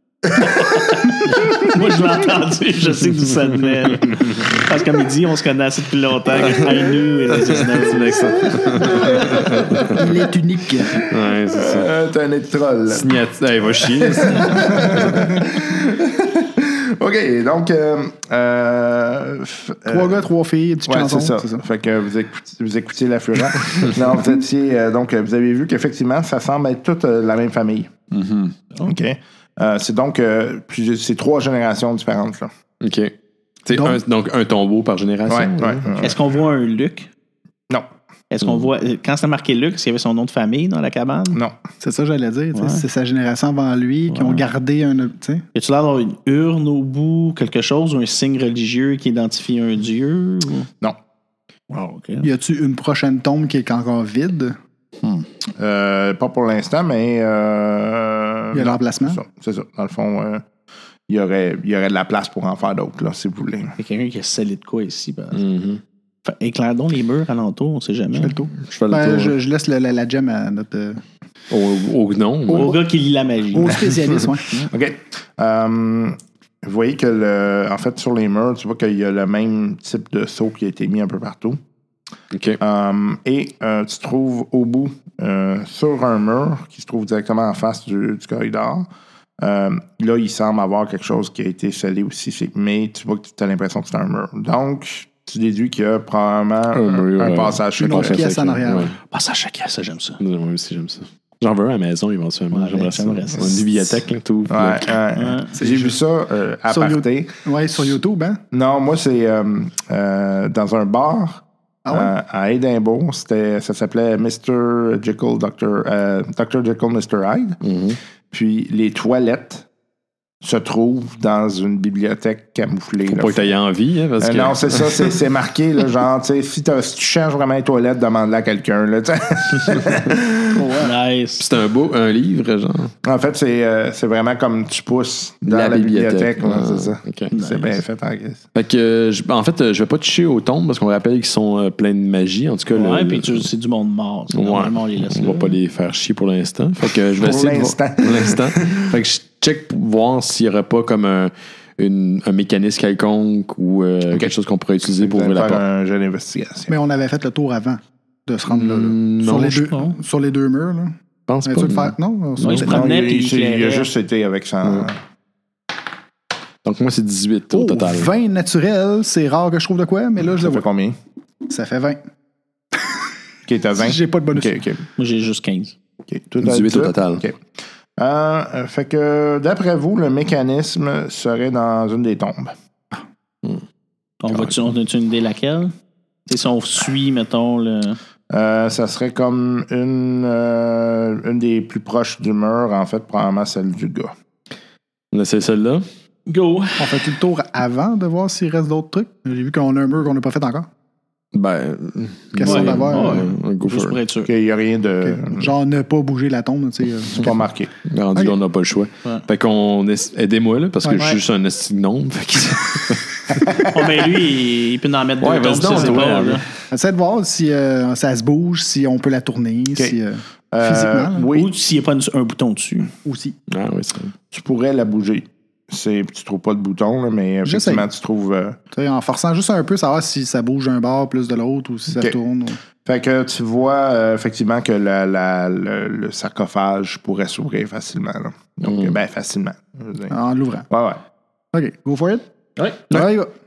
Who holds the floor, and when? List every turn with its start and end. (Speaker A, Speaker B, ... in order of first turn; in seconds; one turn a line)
Speaker A: 0.5-9.4
Speaker B: 7.5-10.0
Speaker C: 8.8-9.3
Speaker D: 9.9-11.1
Speaker C: 10.9-13.2
Speaker B: 11.0-11.9
Speaker B: 12.9-15.2
Speaker C: 13.9-20.2
Speaker D: 19.9-21.6
Speaker C: 20.9-27.9
Speaker B: 28.1-28.6
Speaker C: 28.8-32.5
Speaker B: 32.8-35.9
Speaker D: 33.7-34.0
Speaker C: 35.3-36.2
Speaker A: 36.0-37.1
Speaker A: 38.3-41.4
Speaker D: 41.8-45.4
Speaker A: 42.5-42.9
Speaker A: 44.1-44.5
Speaker A: 45.5-50.7
Speaker A: 51.7-52.3
Speaker D: 52.2-54.6
Speaker C: 55.6-60.4
Speaker D: 58.5-59.2
Speaker C: 61.1-63.8
Speaker A: 63.8-65.4
Speaker B: 65.3-65.8
Speaker A: 66.2-68.4
Speaker D: 68.1-71.0
Speaker B: 68.7-69.3
Speaker B: 71.5-72.8
Speaker A: 72.5-73.9
Speaker D: 73.5-74.5
Speaker C: 74.7-81.6
Speaker B: 82.3-82.6
Speaker C: 82.6-88.9
Speaker C: 89.4-98.4
Speaker B: 96.7-99.0
Speaker D: 97.8-99.0
Speaker A: 99.1-100.2
Speaker B: 100.2-104.9
Speaker A: 102.5-103.6
Speaker C: 104.5-107.3
Speaker A: 105.2-105.5
Speaker D: 105.6-106.0
Speaker D: 106.7-108.4
Speaker C: 108.5-117.6
Speaker D: 111.8-112.1
Speaker B: 117.6-118.0
Speaker C: 118.3-119.7
Speaker C: 120.4-123.6
Speaker B: 123.1-125.2
Speaker C: 124.2-130.8
Speaker D: 130.6-130.9
Speaker A: 130.8-131.4
Speaker B: 131.4-132.9
Speaker C: 133.0-138.4
Speaker B: 135.4-137.3
Speaker A: 137.3-137.8
Speaker B: 138.6-143.5
Speaker A: 142.7-145.5
Speaker B: 144.3-155.6
Speaker C: 147.1-148.8
Speaker C: 154.9-156.8
Speaker D: 156.7-162.8
Speaker B: 158.5-159.7
Speaker A: 159.6-160.0
Speaker B: 161.3-162.6
Speaker A: 162.4-163.9
Speaker C: 162.6-165.0
Speaker B: 166.6-168.1
Speaker D: 167.5-170.7
Speaker C: 170.3-171.0
Speaker D: 171.5-172.0
Speaker D: 172.8-173.0
Speaker C: 173.5-174.8
Speaker D: 173.8-174.6
Speaker A: 175.0-175.8
Speaker C: 176.1-177.4
Speaker B: 176.4-177.2
Speaker C: 178.0-182.5
Speaker A: 184.2-185.7
Speaker B: 184.3-184.6
Speaker A: 186.3-188.0
Speaker C: 188.3-194.1
Speaker B: 195.1-195.9
Speaker A: 196.3-196.9
Speaker D: 196.8-200.7
Speaker B: 201.3-204.0
Speaker D: 202.3-203.3
Speaker A: 202.4-204.3
Speaker C: 204.3-205.5
Speaker D: 205.0-207.4
Speaker C: 207.2-207.7
Speaker B: 207.9-213.6
Speaker A: 210.9-211.2
Speaker A: 213.7-216.4
Speaker B: 215.2-216.4
Speaker D: 216.7-221.3
Speaker C: 220.5-221.5
Speaker A: 221.3-222.9
Speaker D: 223.1-223.4
Speaker B: 223.5-224.1
Speaker C: 224.3-228.6
Speaker D: 227.4-227.9
Speaker D: 228.7-232.6
Speaker C: 232.8-240.2
Speaker B: 238.7-238.9
Speaker D: 240.1-240.7
Speaker C: 240.7-241.0
Speaker D: 241.5-242.3
Speaker D: 242.9-243.3